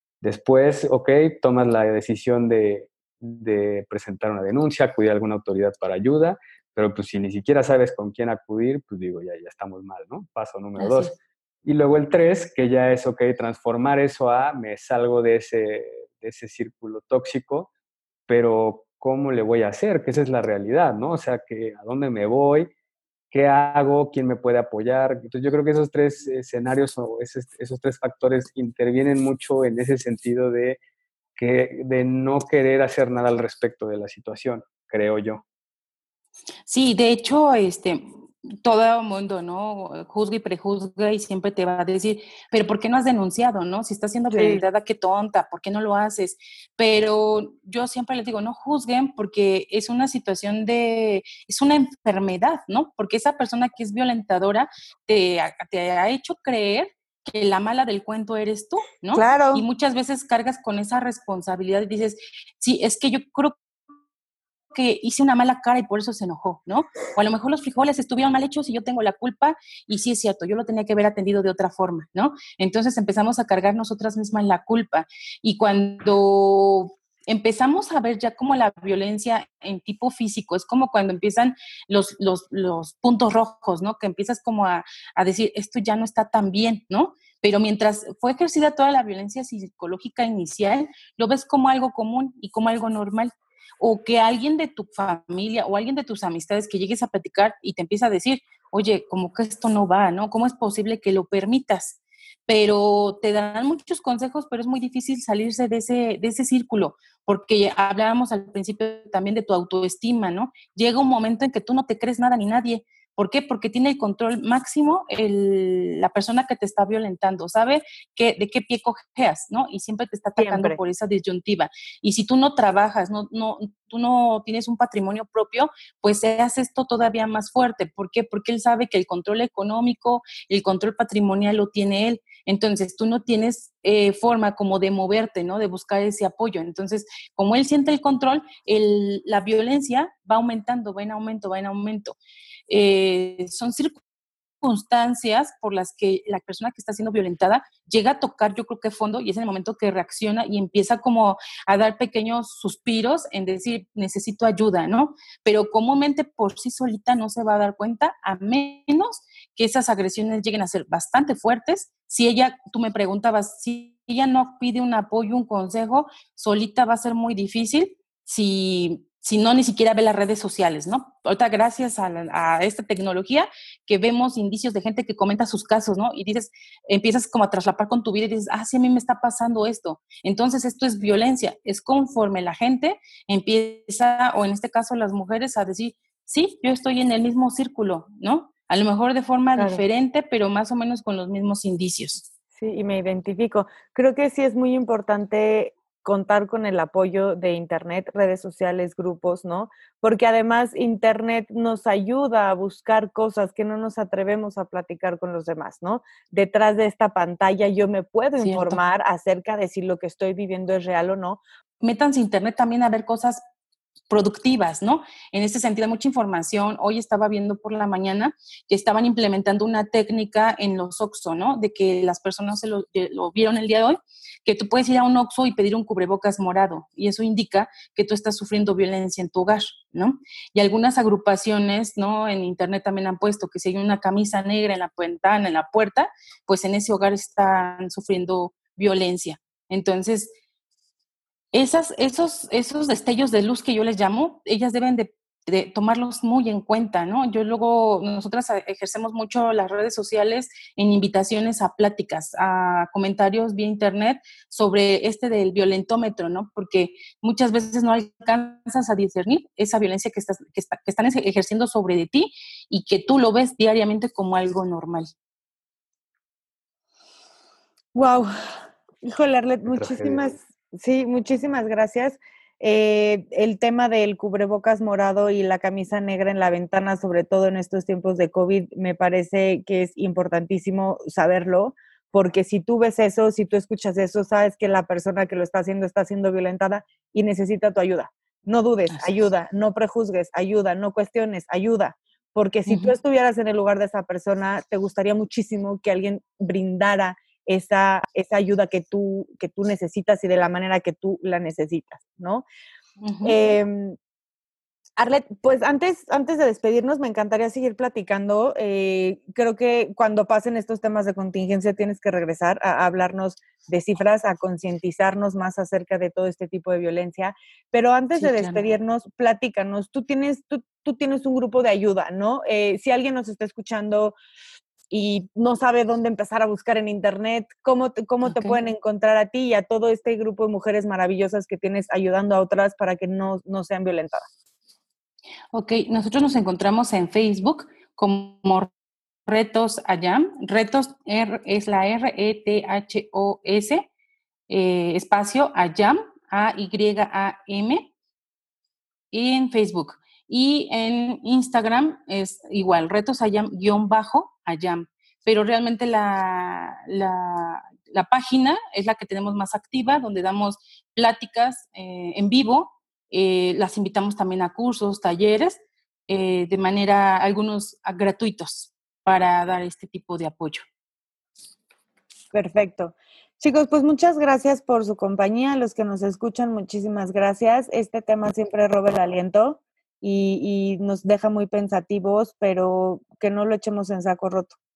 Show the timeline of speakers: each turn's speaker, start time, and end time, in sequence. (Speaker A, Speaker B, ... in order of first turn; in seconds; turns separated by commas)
Speaker A: 0.2-17.7, Speaker B: 10.8-11.1, Speaker A: 18.3-22.7, Speaker A: 23.3-30.8, Speaker A: 31.4-35.4, Speaker B: 36.7-63.5, Speaker C: 44.3-44.6, Speaker C: 59.1-59.6, Speaker B: 64.7-142.2, Speaker C: 120.4-120.8, Speaker B: 142.7-144.0, Speaker B: 144.6-192.3, Speaker C: 189.6-189.8, Speaker C: 192.6-211.4, Speaker B: 208.4-208.8, Speaker B: 211.8-213.4, Speaker B: 214.1-240.3, Speaker B: 241.5-265.1, Speaker C: 267.9-268.3, Speaker C: 269.0-302.4, Speaker A: 269.7-270.2, Speaker B: 292.7-292.9, Speaker B: 303.0-303.4, Speaker C: 303.2-304.0, Speaker C: 305.0-324.2, Speaker B: 318.2-318.6, Speaker C: 324.9-334.3, Speaker B: 328.2-328.6, Speaker B: 335.5-338.7, Speaker B: 339.3-343.9, Speaker B: 344.5-347.9, Speaker B: 349.1-370.6, Speaker C: 372.3-384.6